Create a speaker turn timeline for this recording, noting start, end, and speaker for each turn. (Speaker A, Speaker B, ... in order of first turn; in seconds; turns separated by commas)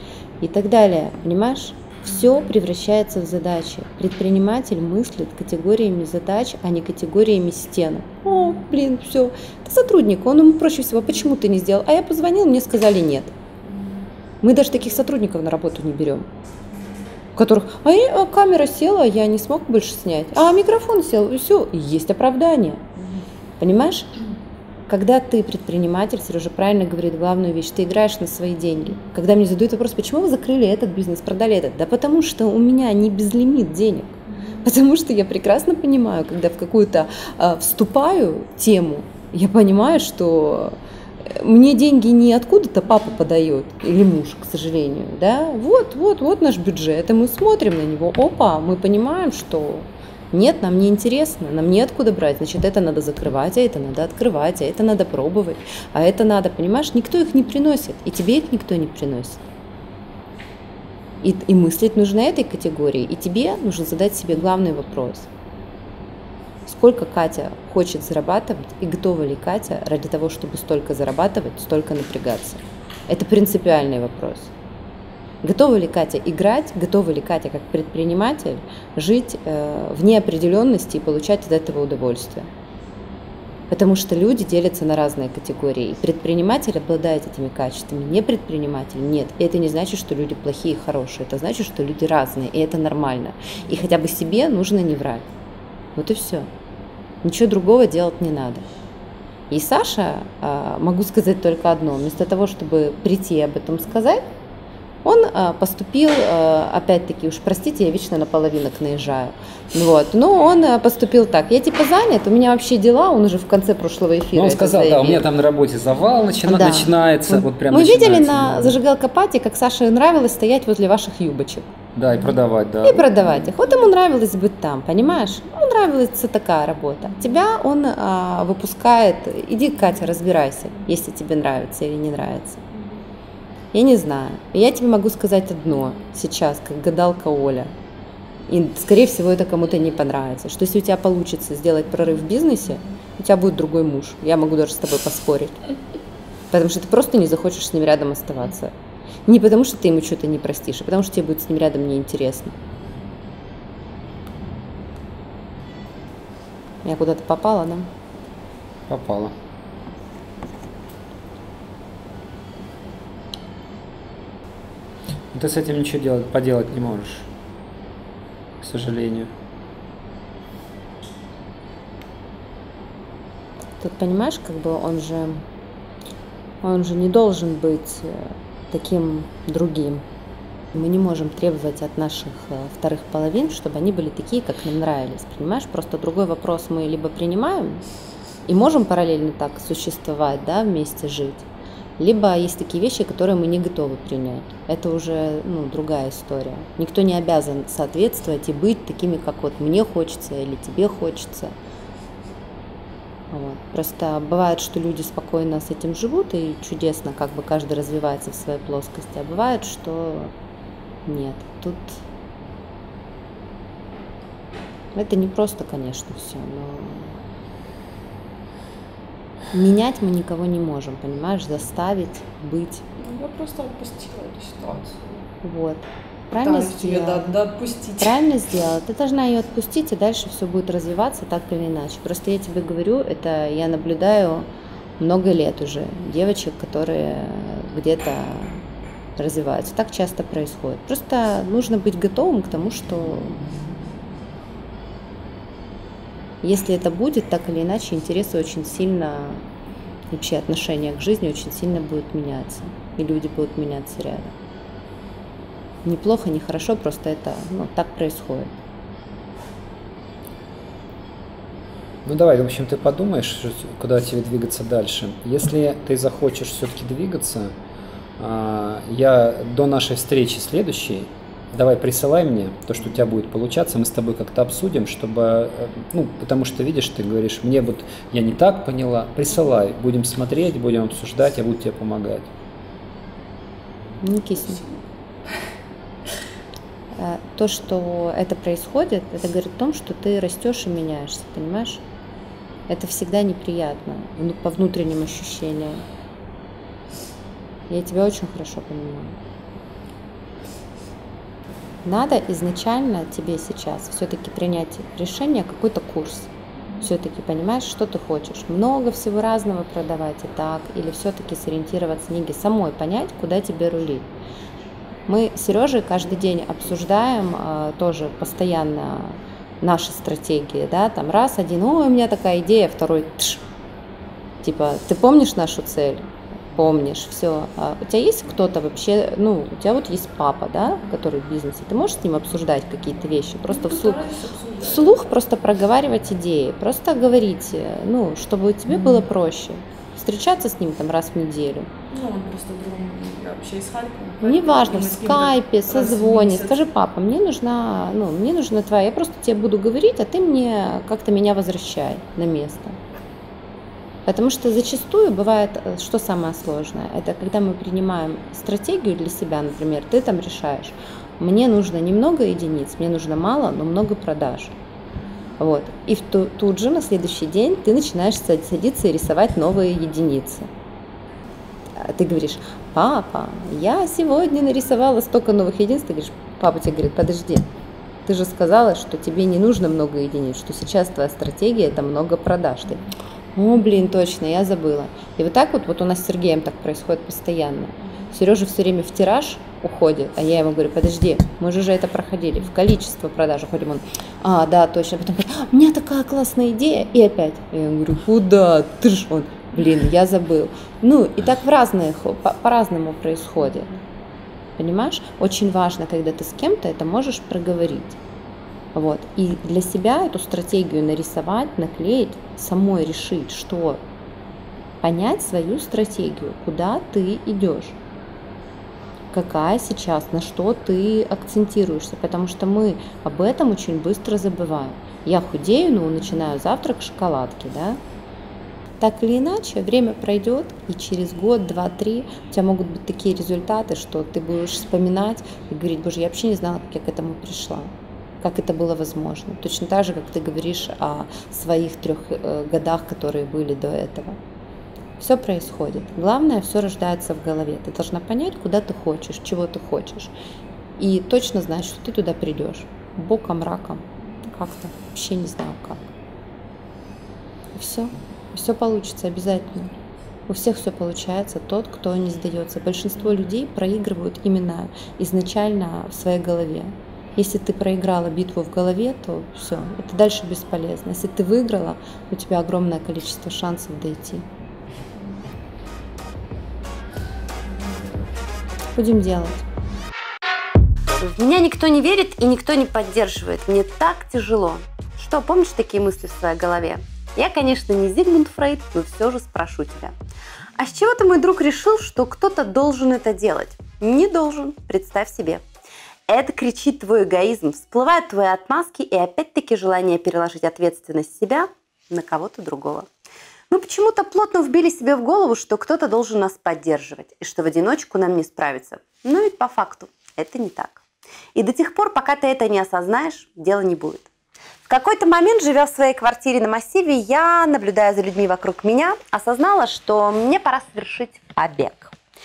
Speaker A: 0.4-13.3, Speaker A: 14.4-16.3, Speaker A: 17.4-22.9, Speaker A: 23.6-24.1, Speaker A: 24.9-59.5, Speaker A: 61.2-65.3, Speaker A: 66.7-74.5, Speaker A: 75.4-82.5, Speaker A: 83.7-95.3, Speaker A: 96.0-96.5, Speaker A: 97.2-98.7, Speaker A: 99.5-104.2, Speaker A: 105.0-115.2, Speaker B: 114.3-118.8, Speaker A: 116.5-121.7, Speaker B: 122.0-123.1, Speaker A: 122.8-132.6, Speaker A: 133.7-137.7, Speaker A: 138.5-145.6, Speaker A: 146.5-148.7, Speaker A: 149.3-152.6, Speaker A: 156.8-157.9, Speaker B: 158.9-159.3, Speaker B: 165.3-167.3, Speaker B: 168.6-169.3, Speaker A: 173.8-175.4, Speaker A: 176.6-180.0, Speaker A: 180.7-187.8, Speaker A: 188.5-191.5, Speaker A: 192.0-201.6, Speaker A: 203.3-210.3, Speaker A: 211.1-212.0, Speaker A: 214.9-217.2, Speaker A: 219.5-222.8, Speaker C: 223.0-225.2, Speaker A: 225.4-227.3, Speaker C: 226.4-228.2, Speaker A: 228.0-234.5, Speaker A: 235.0-238.6, Speaker A: 239.2-243.4, Speaker A: 246.4-249.4, Speaker A: 250.1-254.3, Speaker A: 255.8-258.6, Speaker B: 262.1-267.6, Speaker B: 268.2-282.3, Speaker A: 284.0-284.6, Speaker C: 284.4-284.8, Speaker A: 287.0-291.8, Speaker A: 292.7-295.9, Speaker A: 297.7-299.2, Speaker A: 301.9-306.3, Speaker A: 306.8-314.1, Speaker A: 315.1-323.4, Speaker A: 324.4-334.0, Speaker C: 333.5-335.1, Speaker A: 334.7-341.7, Speaker C: 338.7-339.0, Speaker C: 341.9-346.6, Speaker A: 344.2-352.8, Speaker A: 354.1-364.6, Speaker A: 365.4-370.5, Speaker A: 371.8-377.5, Speaker A: 378.1-382.8, Speaker A: 383.4-403.8, Speaker A: 404.6-408.0, Speaker A: 408.7-413.8, Speaker A: 414.8-417.8, Speaker A: 419.1-427.8, Speaker A: 428.8-444.2, Speaker A: 445.0-450.1, Speaker A: 450.8-455.9, Speaker A: 457.5-459.7, Speaker A: 460.3-474.3, Speaker A: 478.8-479.4, Speaker D: 481.0-489.9, Speaker D: 490.6-495.4, Speaker D: 496.1-502.9, Speaker D: 503.5-510.8, Speaker D: 511.4-514.1, Speaker D: 514.6-521.9